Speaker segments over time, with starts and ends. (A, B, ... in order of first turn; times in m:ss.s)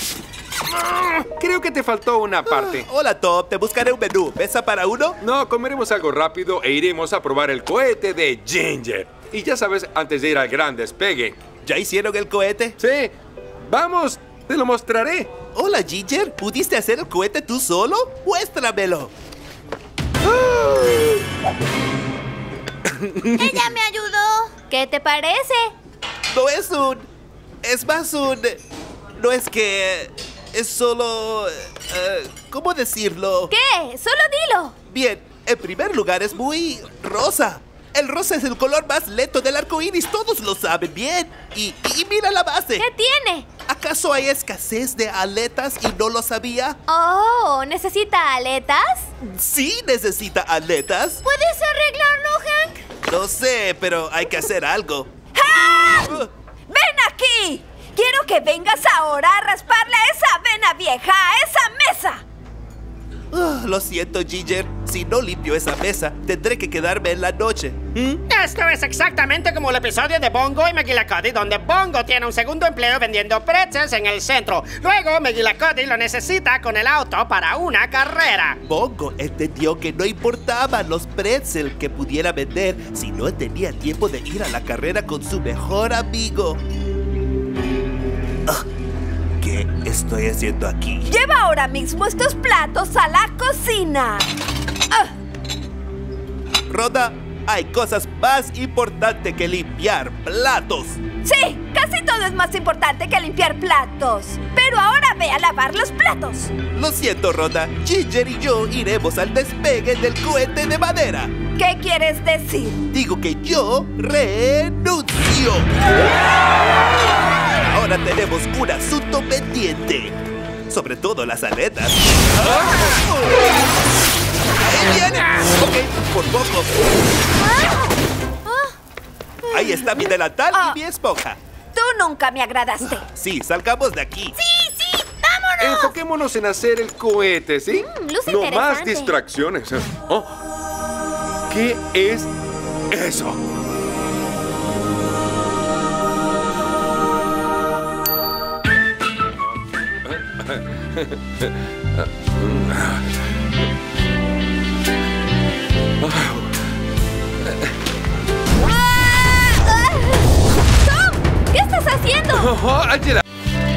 0:01.4-0:02.8 A
0:02.4-0:05.2 B
0:05.2-0:11.4 A
0:11.6-0:12.8 B
0:12.8-0:13.1 A
0:13.6-0:15.3 A
0:15.5-0:19.1 B
0:20.2-0:21.2 A
0:22.9-0:23.7 A
0:23.4-0:24.5 C
0:24.7-0:25.7 D
0:26.3-0:27.1 B
0:27.6-0:28.6 B
0:29.2-0:33.5 B
0:33.5-0:34.8 D
0:34.9-0:42.9 B
0:42.8-0:43.5 D
0:43.7-0:46.8 B
0:46.9-0:49.1 D
0:49.2-0:51.2 B
0:51.2-0:52.8 C
0:53.0-0:55.1 B
0:55.3-1:02.2 E
0:56.0-0:56.3 B
1:03.3-1:08.2 B
1:08.3-1:18.6 F
1:18.6-1:26.6 B
1:29.4-1:31.1 B
1:31.0-1:34.3 E
1:36.7-1:41.0 B
1:41.2-1:46.5 E
1:46.7-1:51.3 B
1:51.5-1:52.8 E
1:52.9-1:55.7 B
1:57.4-2:00.2 B
2:00.7-2:03.5 B
2:04.6-2:06.8 B
2:09.5-2:11.4 B
2:10.5-2:10.8 E
2:11.7-2:13.0 E
2:12.9-2:14.3 B
2:14.4-2:15.9 C
2:15.6-2:20.4 A
2:17.8-2:19.2 D
2:21.5-2:22.3 A
2:22.9-2:23.4 A
2:30.1-2:33.1 A
2:36.0-2:36.5 A
2:38.9-2:42.5 D
2:40.8-2:41.0 E
2:42.3-2:43.2 A